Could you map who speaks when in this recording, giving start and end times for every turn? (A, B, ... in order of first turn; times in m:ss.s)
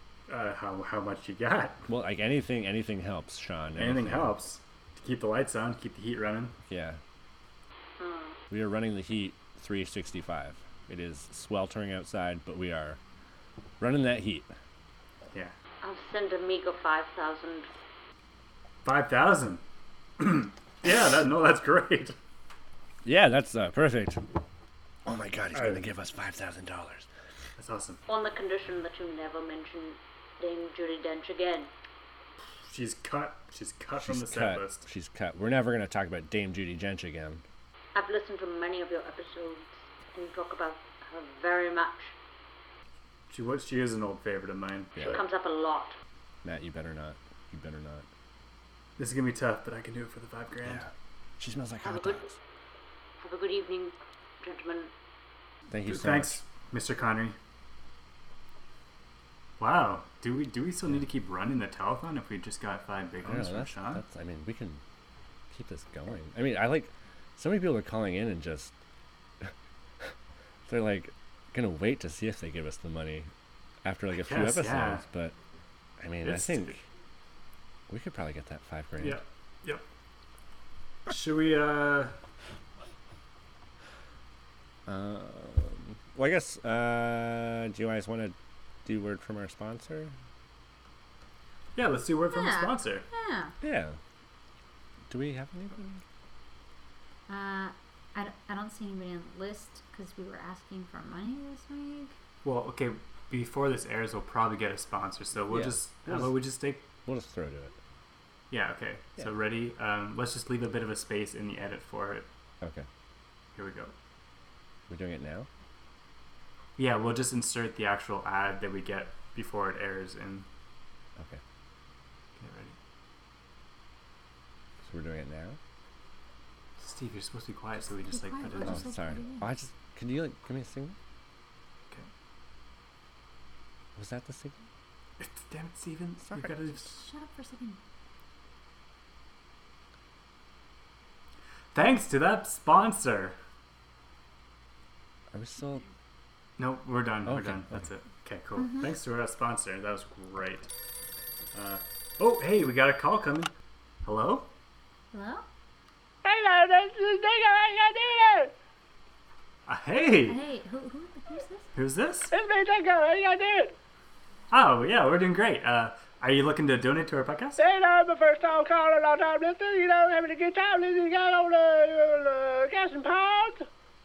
0:00.3-0:01.8 A
0:01.9-0:04.3 B
0:03.8-0:06.5 A
0:06.7-0:07.0 B
0:08.0-0:08.3 C
0:08.0-0:08.3 D
0:08.5-0:13.0 B
0:13.8-0:14.5 B
0:15.8-0:17.6 D
0:15.8-0:17.6 C
0:18.8-0:19.6 A
0:20.2-0:22.1 A
0:23.0-0:24.2 B
0:25.0-0:27.1 B
0:25.5-0:25.8 A
0:27.6-0:28.0 A
0:28.1-0:31.7 C
0:28.4-0:29.9 D
0:30.8-0:31.7 D
0:32.6-0:34.8 A
0:34.0-0:37.4 B
0:37.9-0:42.1 C
0:38.0-0:39.6 D
0:41.3-0:41.9 D
0:43.3-0:45.2 A
0:45.0-0:45.2 B
0:45.1-0:45.9 D
0:45.4-0:45.9 C
0:46.4-0:48.1 B
0:49.0-0:50.8 A
0:50.6-0:52.4 B
0:51.8-0:52.2 D
0:53.2-0:54.9 C
0:53.2-0:53.9 D
0:54.4-0:54.9 D
0:55.7-0:56.4 B
0:55.8-0:57.4 A
0:59.6-1:04.0 A
1:03.2-1:04.8 B
1:05.5-1:08.7 B
1:09.4-1:10.1 B
1:10.6-1:13.3 B
1:13.8-1:15.4 B
1:14.1-1:15.0 A
1:16.0-1:16.8 B
1:16.2-1:16.8 A
1:17.9-1:19.2 B
1:19.0-1:19.8 A
1:21.1-1:22.1 A
1:24.8-1:30.1 B
1:31.8-1:33.0 A
1:32.3-1:33.5 D
1:33.6-1:34.0 B
1:35.1-1:36.0 B
1:37.3-1:42.1 D
1:42.4-1:46.8 A
1:45.5-1:46.4 B
1:47.0-1:47.8 B
1:48.5-1:52.3 A
1:52.6-1:52.9 B
1:53.6-1:53.9 A
1:54.9-1:55.5 B
1:56.8-2:00.4 A
2:02.4-2:02.8 A
2:04.8-2:05.6 B
2:06.8-2:08.9 A
2:07.8-2:09.4 D
2:08.6-2:11.0 B
2:14.0-2:14.7 B
2:15.2-2:17.0 A
2:16.7-2:17.8 D
2:21.7-2:23.3 A
2:25.3-2:25.9 B
2:26.6-2:30.7 A
2:27.2-2:27.8 B
2:28.6-2:28.9 D
2:31.5-2:33.5 A
2:34.0-2:34.5 A
2:35.1-2:35.4 D
2:36.2-2:38.5 E
2:39.7-2:40.4 A
2:40.2-2:41.7 D
2:41.7-2:42.3 A
2:42.3-2:43.7 E
2:44.5-2:47.6 A
2:47.6-2:53.6 E